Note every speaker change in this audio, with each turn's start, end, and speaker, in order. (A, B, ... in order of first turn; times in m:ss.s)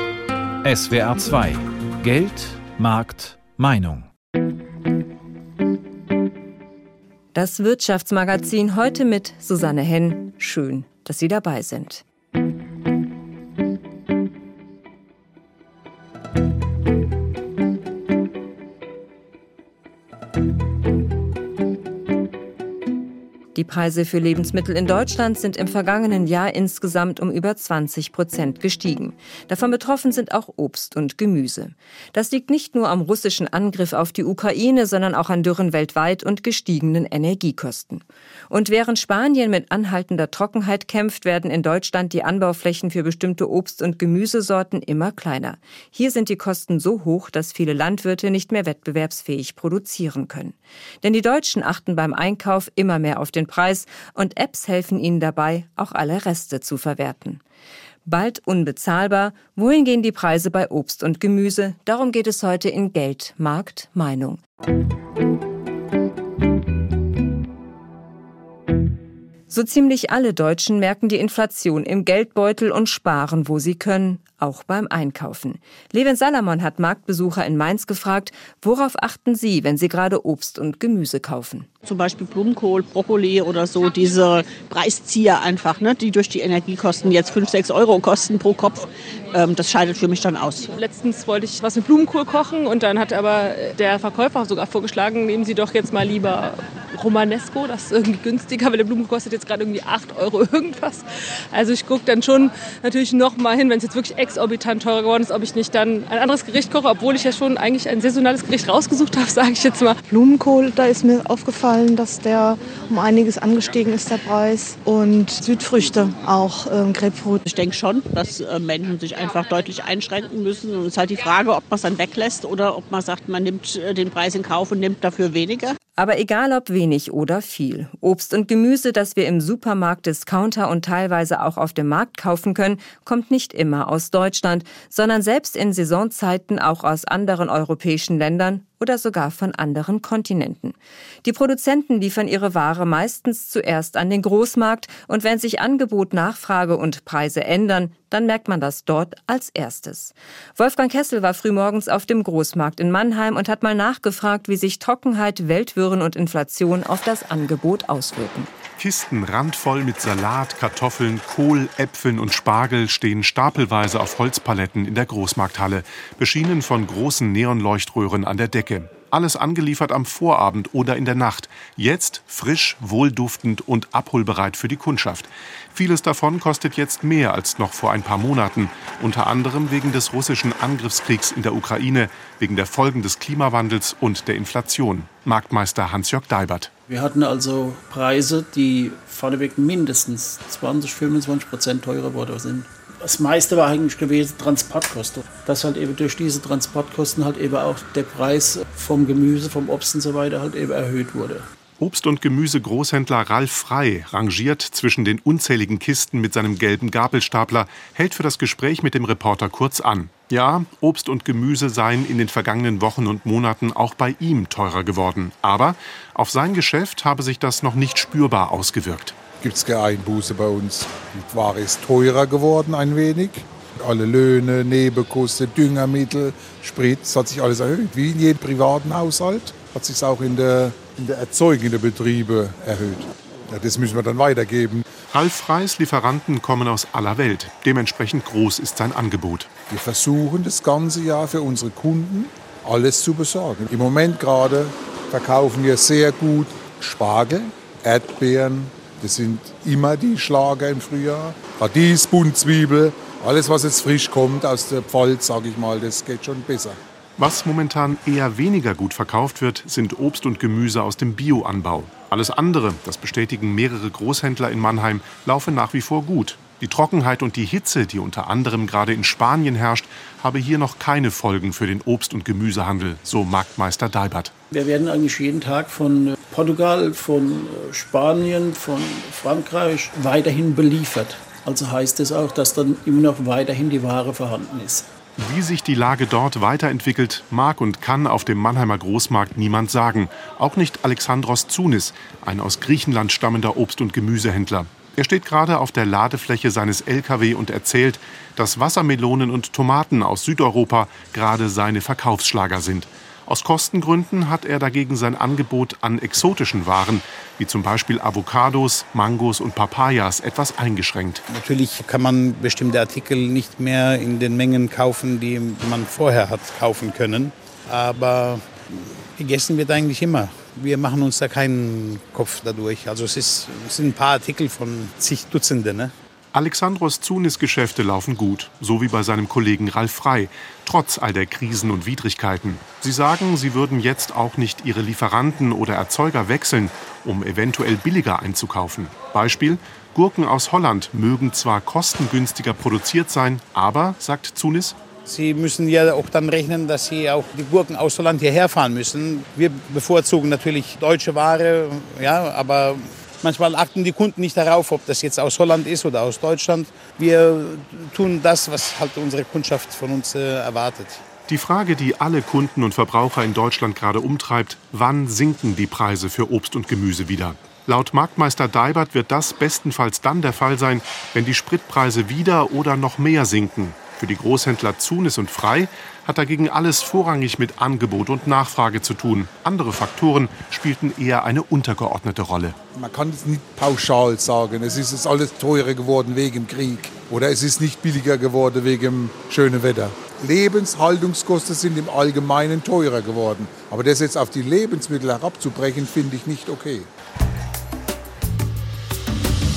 0:00.6-0:04.1 A
0:07.4-0:12.0 B
0:23.6-0:57.4 B
0:58.0-1:04.4 B
1:09.5-1:21.7 B
1:21.8-1:30.7 C
1:30.7-1:50.0 D
1:50.1-1:57.4 E
1:57.5-2:05.8 C
2:06.0-2:38.5 B
2:38.8-3:06.7 F
3:06.9-3:21.5 G
3:21.8-3:39.2 F
3:39.4-3:54.9 H
3:55.1-3:59.5 F
3:59.7-4:16.8 H
4:17.2-4:34.3 F
4:34.5-4:44.9 G
4:45.2-5:11.2 F
5:11.3-5:25.9 I
5:26.3-5:44.8 F
5:45.0-6:01.0 I
6:01.3-6:22.6 F
6:22.7-6:36.9 H